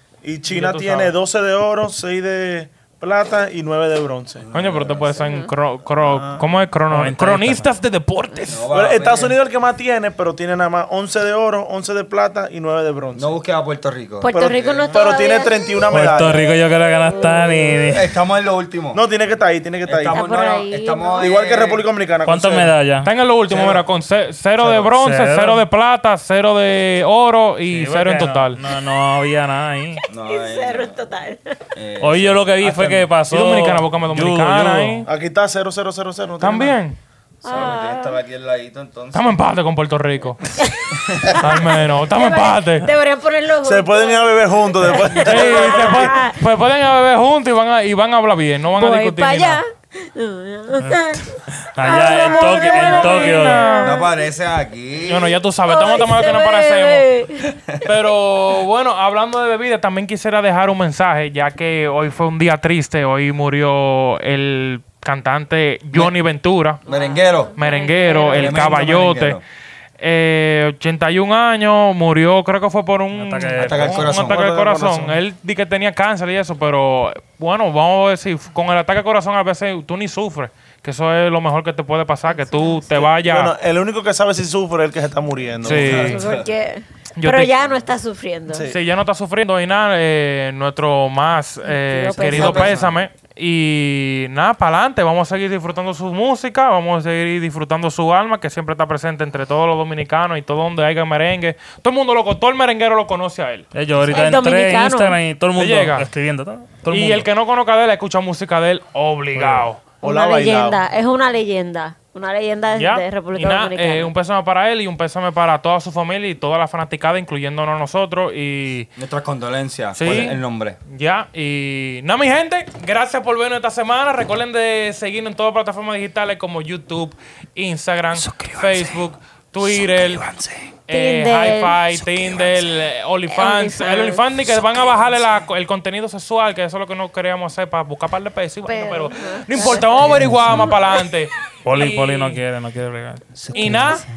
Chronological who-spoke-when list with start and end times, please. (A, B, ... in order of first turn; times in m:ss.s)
0:00.2-0:04.4 A
0:00.4-0:01.1 B
0:04.4-0:05.2 C
0:04.5-0:08.7 B
0:05.2-0:05.5 D
0:06.0-0:06.4 A
0:06.9-0:07.7 E
0:08.5-0:09.4 C
0:08.7-0:13.3 A
0:13.1-0:14.9 C
0:14.2-0:15.8 D
0:14.3-0:16.5 A
0:15.9-0:18.1 E
0:17.0-0:17.9 D
0:17.9-0:19.0 C
0:18.9-0:20.2 A
0:19.8-0:21.8 C
0:20.0-0:21.3 D
0:21.2-0:22.7 A
0:22.2-0:23.1 E
0:23.0-0:28.6 B
0:23.5-0:23.8 A
0:24.8-0:25.6 E
0:27.7-0:30.0 E
0:30.1-0:31.0 C
0:30.2-0:31.6 D
0:31.7-0:33.1 C
0:32.0-0:35.0 E
0:33.3-0:35.1 B
0:35.0-0:36.8 A
0:36.4-0:37.0 B
0:37.4-0:38.1 D
0:37.4-0:39.3 C
0:39.1-0:40.6 B
0:40.6-0:46.4 D
0:41.4-0:42.9 B
0:43.6-0:46.1 A
0:45.2-0:49.6 B
0:48.8-0:54.1 D
0:50.8-0:53.7 E
0:51.8-0:54.0 B
0:53.8-0:55.4 C
0:55.0-0:57.1 B
0:55.7-0:57.5 D
0:57.8-1:06.8 B
1:06.8-1:07.5 C
1:06.9-1:08.8 D
1:07.6-1:09.4 B
1:08.2-1:09.4 C
1:10.0-1:23.5 B
1:13.1-1:14.2 E
1:13.6-1:14.5 C
1:14.2-1:15.2 A
1:22.4-1:22.8 D
1:22.9-1:26.1 A
1:25.6-1:26.2 B
1:25.6-1:26.5 C
1:26.0-1:28.7 D
1:27.2-1:27.6 B
1:28.7-1:43.7 B
1:31.6-1:32.7 D
1:32.3-1:33.0 C
1:43.7-1:47.2 E
1:44.1-1:45.2 D
1:45.6-1:46.1 B
1:46.9-1:49.8 B
1:49.3-1:50.8 A
1:50.0-1:54.1 D
1:52.8-1:58.9 B
1:59.0-2:00.8 C
1:59.9-2:10.2 B
2:08.1-2:09.0 C
2:09.6-2:10.7 C
2:10.9-2:22.4 B
2:10.9-2:11.8 D
2:11.9-2:12.6 C
2:13.3-2:14.2 D
2:18.6-2:21.0 D
2:21.6-2:23.2 E
2:23.4-2:24.0 C
2:23.5-2:24.0 B
2:23.6-2:24.0 D